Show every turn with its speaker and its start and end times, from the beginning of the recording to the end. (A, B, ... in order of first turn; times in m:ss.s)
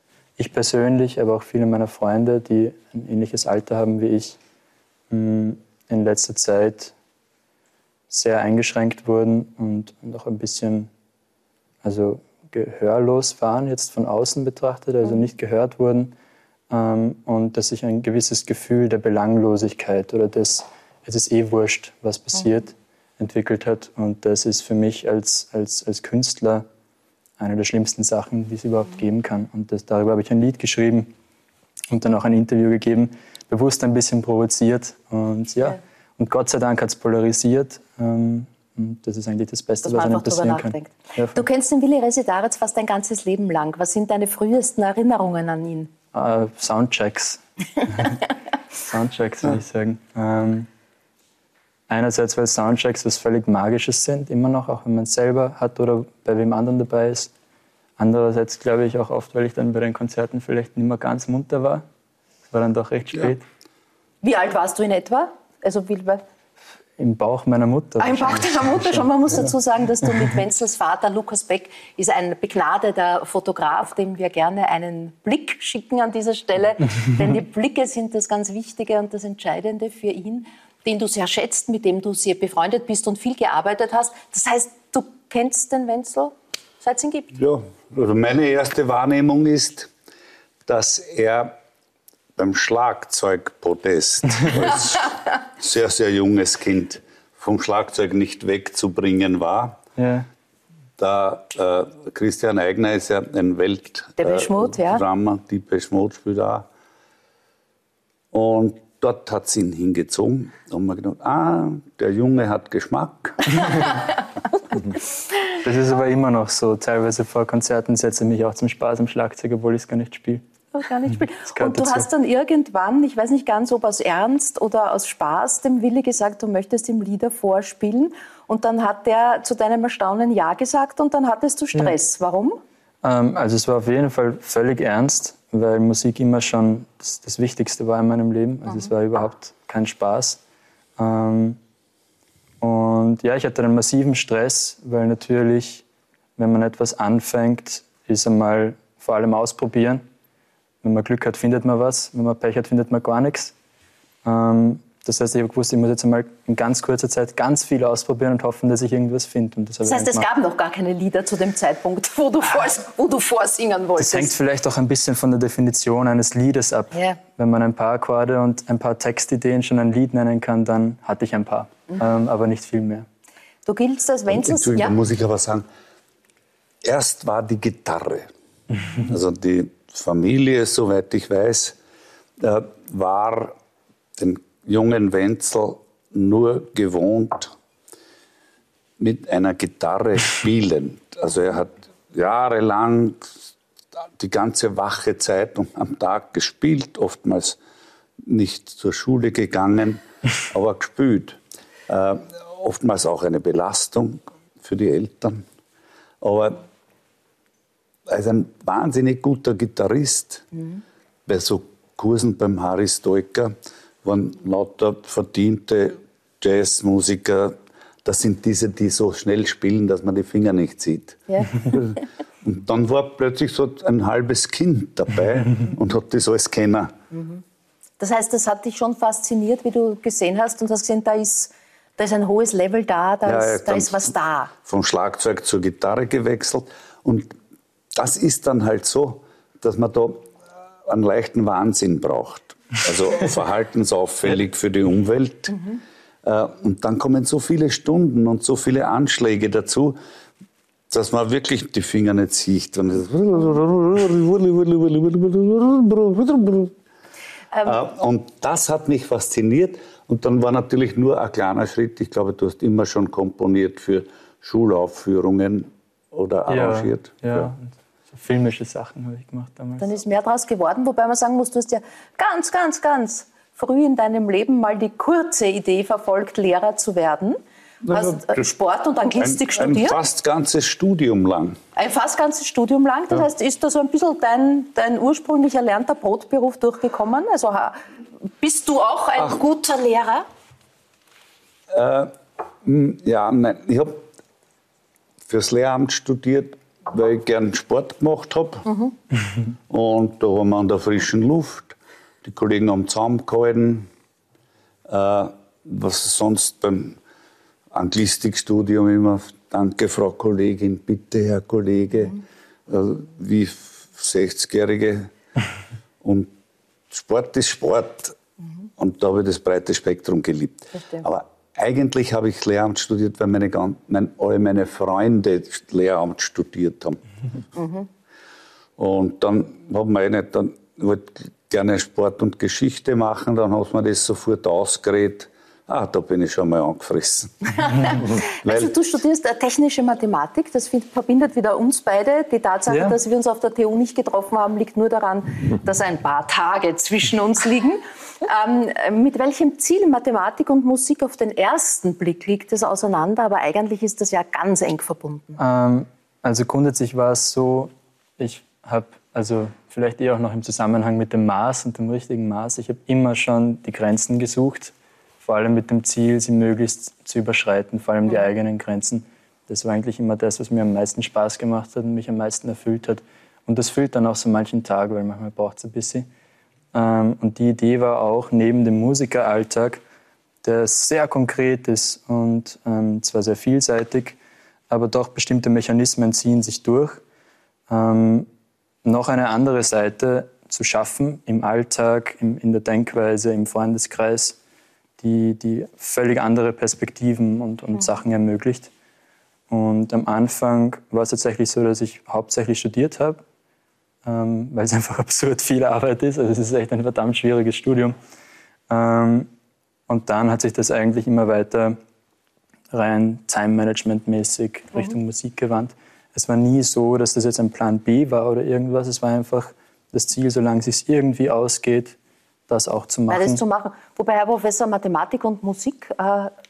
0:00.4-0:04.4 A
0:05.1-0:06.9 A
0:08.1-0:10.9 A
0:11.8-0:16.1 A
0:16.7-0:26.7 A
0:27.4-0:31.1 A
0:31.9-0:41.4 A
0:39.8-0:45.9 B
0:46.1-0:48.2 A
0:48.8-0:50.7 A
0:51.9-0:57.3 A
0:58.0-1:01.8 A
1:02.5-1:03.4 A
1:04.2-1:06.2 B
1:07.0-1:09.1 A
1:08.0-1:27.3 B
1:27.3-1:29.9 C
1:30.7-1:31.6 C
1:32.4-1:39.8 C
1:40.0-1:40.3 A
1:41.0-1:46.7 C
1:44.2-1:45.0 B
1:48.3-1:53.9 C
1:55.6-2:00.4 A
2:00.8-2:12.6 B
2:01.4-2:02.1 A
2:13.0-2:20.4 A
2:21.0-2:21.6 A
2:22.6-2:25.8 A
2:26.4-2:30.0 A
2:30.8-2:33.5 A
2:34.2-2:40.2 A
2:39.8-2:44.3 B
2:44.0-2:53.1 A
2:53.7-2:55.0 B
2:54.3-2:55.6 C
2:56.8-2:58.3 C
2:59.0-3:01.8 C
3:02.4-3:03.6 C
3:04.2-3:07.5 C
3:09.0-3:13.4 C
3:14.2-3:17.6 C
3:18.2-3:25.4 C
3:26.2-3:26.6 C
3:28.1-3:30.5 C
3:31.3-3:46.9 C
3:41.3-3:41.6 B
3:47.1-3:47.4 B
3:48.0-3:54.5 B
3:53.3-3:54.1 C
3:54.6-3:57.4 C
3:58.0-4:00.3 C
4:00.9-4:05.6 C
4:06.2-4:10.0 C
4:10.9-4:16.7 C
4:17.5-4:17.8 B
4:17.6-4:27.5 C
4:26.5-4:29.9 A
4:29.8-4:37.4 B
4:37.8-4:38.5 C
4:37.9-4:40.0 B
4:39.2-4:41.6 C
4:41.8-4:47.8 B
4:48.4-4:50.3 B
4:51.7-4:52.1 C
4:52.6-4:54.1 C
4:55.3-4:58.7 C
4:58.7-4:58.9 B
4:59.7-5:03.9 C
5:04.9-5:07.0 C
5:07.7-5:15.1 C
5:16.0-5:16.3 C
5:16.9-5:18.2 C
5:18.8-5:27.0 C
5:20.8-5:21.0 B
5:27.6-5:27.9 B
5:28.8-5:38.7 C
5:37.8-5:55.4 B
5:42.7-5:43.0 A
5:55.4-6:16.1 A
6:16.7-6:19.8 A
6:20.4-6:24.2 A
6:24.7-6:27.0 A
6:27.7-6:28.3 A
6:28.8-6:34.4 A
6:35.0-6:38.7 A
6:39.5-6:43.2 A
6:44.0-6:48.0 A
6:48.7-6:49.3 A
6:49.9-6:51.8 A
6:52.7-7:02.0 A
7:02.5-7:03.4 A
7:03.1-7:06.3 B